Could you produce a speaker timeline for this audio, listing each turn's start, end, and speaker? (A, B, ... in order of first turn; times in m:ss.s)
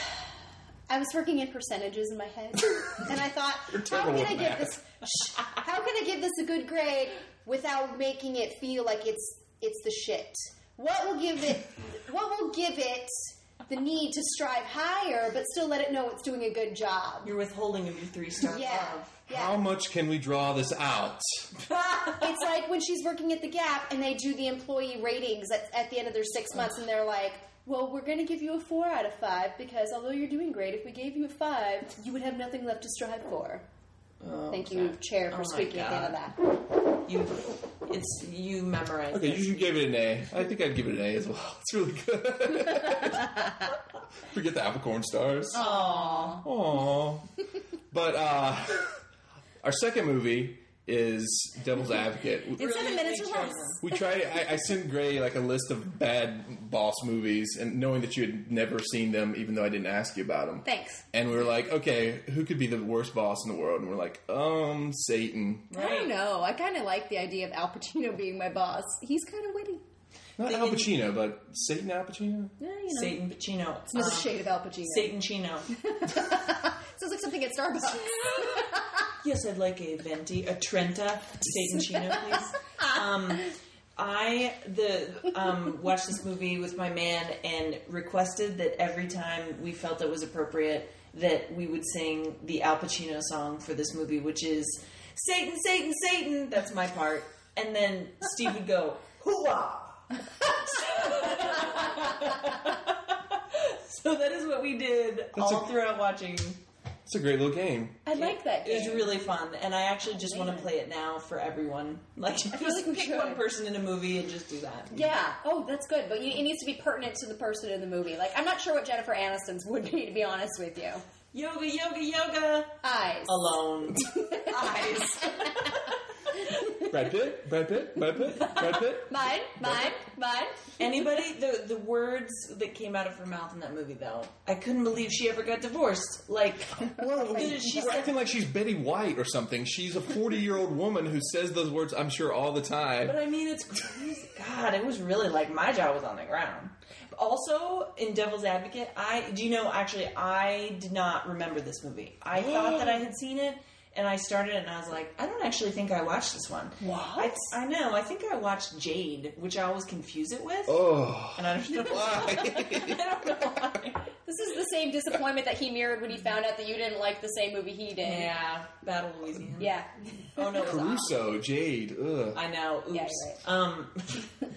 0:00.9-0:17.3 A
0:03.7-0:04.8 B
0:17.2-0:19.2 C
0:18.4-0:19.6 A
0:19.3-0:21.5 B
0:22.1-0:33.6 A
0:34.2-0:36.2 C
0:34.5-0:36.4 A
0:37.0-0:39.8 C
0:39.1-0:43.7 B
0:44.2-0:45.6 B
0:45.5-0:46.4 C
0:45.5-0:46.4 A
0:46.4-0:47.3 B
0:47.9-0:49.0 B
0:49.6-0:52.6 B
0:52.6-0:53.8 A
0:52.6-0:53.8 C
0:53.8-1:05.7 B
1:00.6-1:01.0 A
1:05.7-1:06.1 C
1:05.7-1:09.8 A
1:10.4-1:12.5 B
1:10.4-1:11.0 C
1:12.6-1:13.2 A
1:12.9-1:15.7 C
1:13.9-1:15.1 A
1:15.8-1:19.0 A
1:18.1-1:18.6 C
1:19.2-1:46.6 C
1:21.8-1:22.2 A
1:45.4-1:45.7 B
1:47.1-1:48.1 B
1:48.1-1:49.2 A
1:48.2-1:55.0 C
1:50.1-1:50.7 A
1:52.5-1:53.4 A
1:54.9-2:01.0 A
2:01.3-2:05.9 C
2:02.8-2:03.4 A
2:04.0-2:05.7 A
2:06.8-2:10.0 B
2:08.4-2:10.7 A
2:10.8-2:18.1 C
2:17.0-2:23.2 B
2:17.0-2:18.0 A
2:23.0-2:40.8 C
2:32.3-2:33.0 B
2:36.8-2:37.5 A
2:40.7-2:43.8 B
2:41.4-2:44.0 C
2:44.2-2:48.3 A
2:48.0-2:49.7 C
2:49.6-2:50.7 A
2:50.4-2:51.2 C
2:50.6-2:52.4 B
2:52.3-2:54.3 C
2:52.9-2:53.4 A